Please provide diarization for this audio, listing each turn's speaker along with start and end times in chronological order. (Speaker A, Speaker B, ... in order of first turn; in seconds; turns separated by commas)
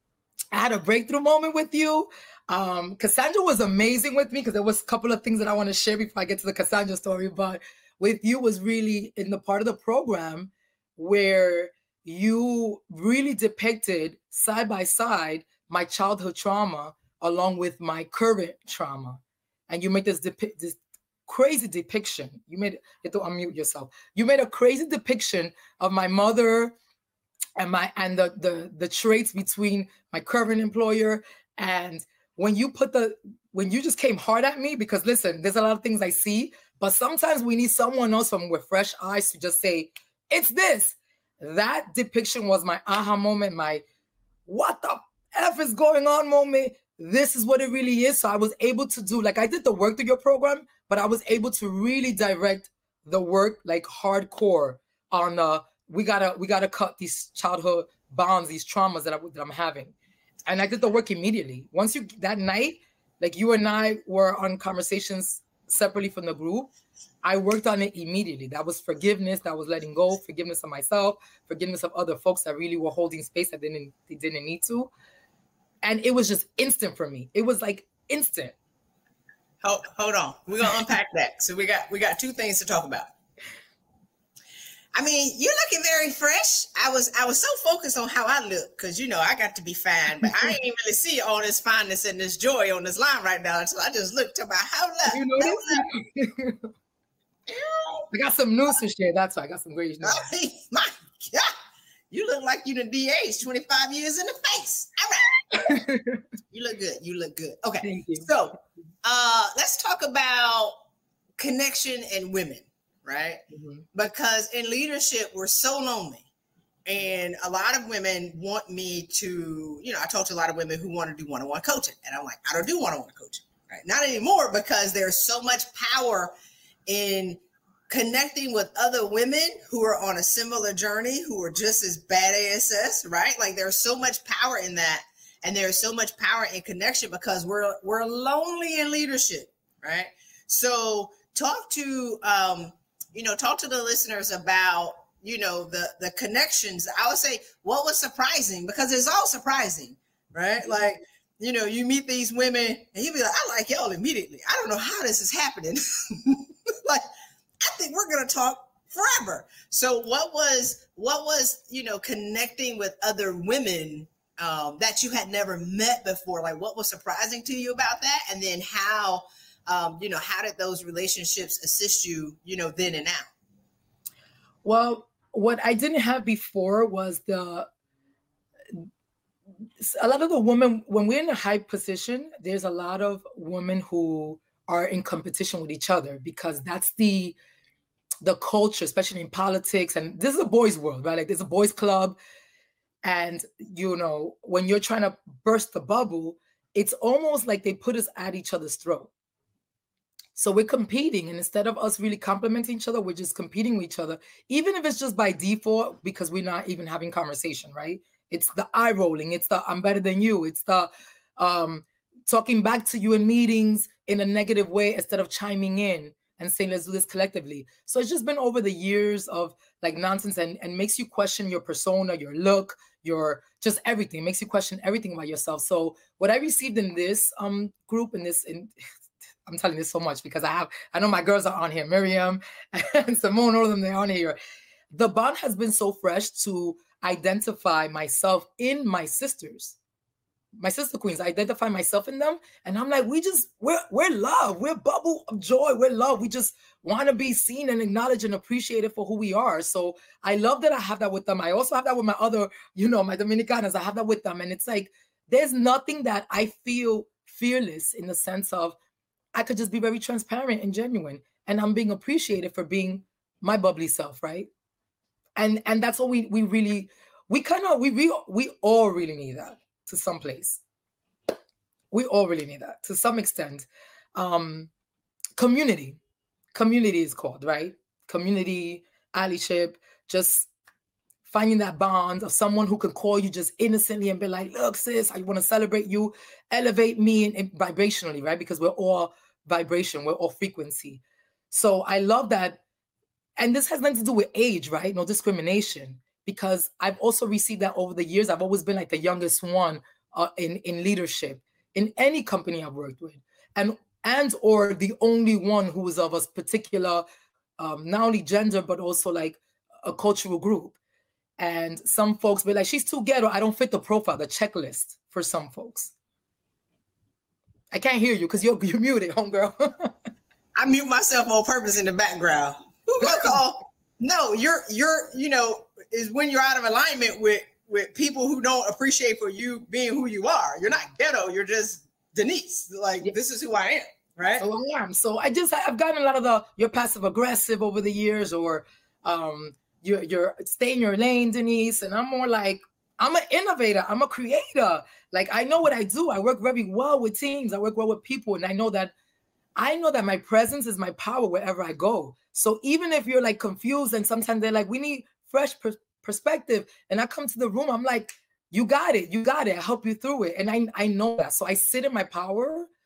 Speaker A: 0.5-26.7, Speaker A: 27.6-43.8, Speaker A: 44.5-59.9, Speaker A: 60.5-66.7, Speaker A: 67.2-74.9, Speaker A: 75.8-78.5, Speaker B: 79.6-83.1, Speaker B: 84.9-95.9, Speaker A: 95.1-96.7, Speaker B: 97.5-98.1, Speaker A: 98.1-100.3, Speaker B: 100.0-101.5, Speaker B: 102.1-105.3, Speaker A: 105.5-106.2, Speaker B: 106.5-110.8, Speaker A: 107.8-108.3, Speaker B: 111.4-116.3, Speaker A: 113.5-113.8, Speaker B: 116.9-126.3, Speaker B: 126.9-157.1, Speaker B: 157.6-173.3, Speaker A: 174.6-177.7, Speaker A: 179.8-187.4, Speaker A: 188.2-192.2, Speaker A: 193.0-199.1, Speaker A: 200.4-228.8, Speaker A: 229.5-234.4, Speaker A: 234.9-239.8, Speaker A: 240.6-258.8, Speaker A: 259.4-264.5, Speaker A: 265.4-270.6, Speaker A: 271.9-274.7, Speaker A: 275.4-276.0, Speaker A: 276.5-280.5, Speaker A: 281.3-292.6, Speaker A: 293.4-307.1, Speaker A: 307.6-310.8, Speaker A: 311.4-315.9, Speaker A: 317.7-319.9, Speaker B: 320.6-334.4, Speaker A: 334.4-348.9, Speaker A: 349.6-362.7